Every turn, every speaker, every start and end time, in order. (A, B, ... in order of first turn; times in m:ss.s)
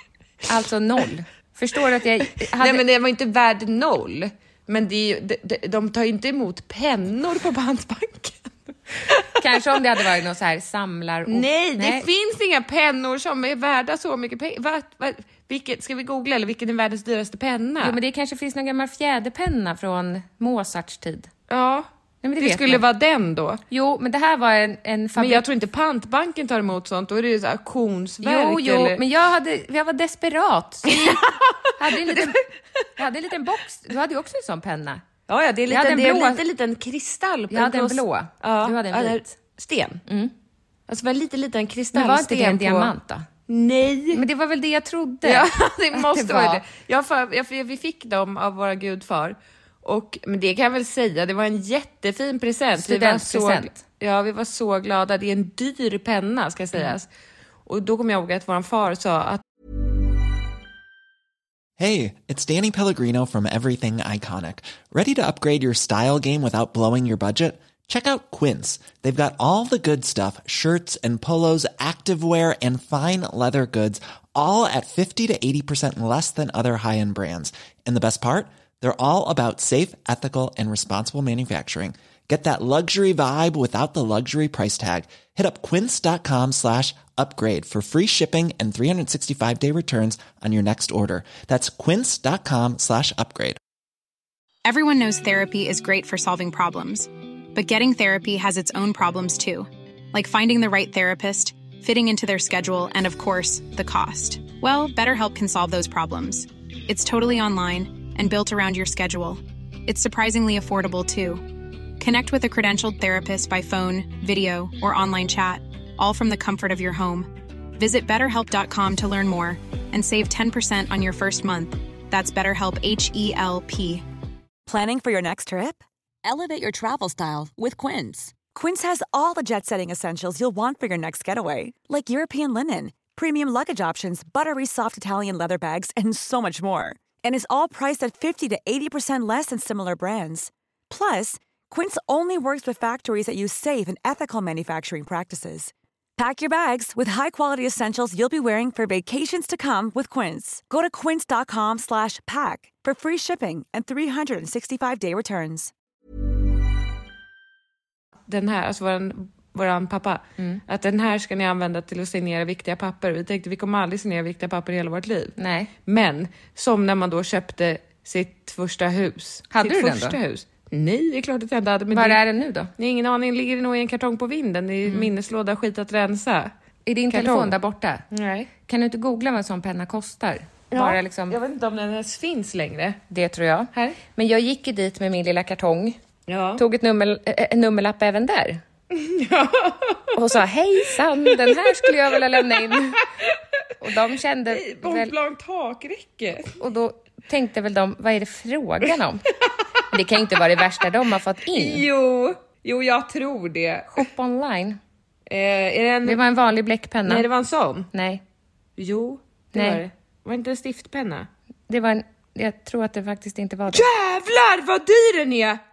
0:00.5-0:02.8 A
0:02.4-0:09.4 B
0:09.4-0:12.1 A
0:11.3-0:18.0 B
0:17.8-0:21.3 A
0:21.5-0:23.6 B
0:22.2-0:22.8 A
0:23.7-0:25.4 A
0:25.2-0:29.0 B
0:28.2-0:31.3 A
0:30.9-0:32.4 B
0:31.8-0:35.0 A
0:35.3-0:40.0 B
0:35.7-0:36.4 A
0:37.5-0:39.4 A
0:40.1-0:40.3 A
0:40.9-0:42.9 B
0:41.9-0:43.3 A
0:43.5-0:44.2 B
0:44.1-0:46.6 A
0:45.2-0:57.1 B
0:52.8-0:53.8 A
0:57.7-0:59.4 B
1:01.8-1:33.6 C
1:34.6-1:51.5 D
1:52.0-2:04.0 D
2:04.7-2:35.7 E
2:38.3-2:52.2 B
2:45.4-2:45.7 A
2:49.5-2:50.2 A
2:51.9-2:52.7 A
2:52.8-2:56.5 B
2:54.8-2:55.1 A
2:56.8-2:58.1 A
2:57.1-2:57.6 B
2:58.1-2:58.5 B
2:58.7-3:01.4 A
3:00.7-3:03.0 B
3:03.1-3:06.0 A
3:03.7-3:04.0 B
3:06.3-3:06.6 B
3:06.6-3:08.6 A
3:08.9-3:10.2 B
3:10.2-3:13.1 A
3:11.3-3:12.2 B
3:12.7-3:13.4 B
3:13.8-3:15.1 A
3:14.5-3:16.5 B
3:16.6-3:19.3 A
3:19.9-3:21.9 A
3:21.5-3:24.0 B
3:23.9-3:24.8 A
3:25.3-3:26.2 B
3:26.0-3:27.3 A
3:27.1-3:27.9 B
3:27.9-3:28.2 A
3:28.8-3:31.3 B
3:29.5-3:29.8 A
3:31.7-3:33.9 A
3:33.7-3:35.6 B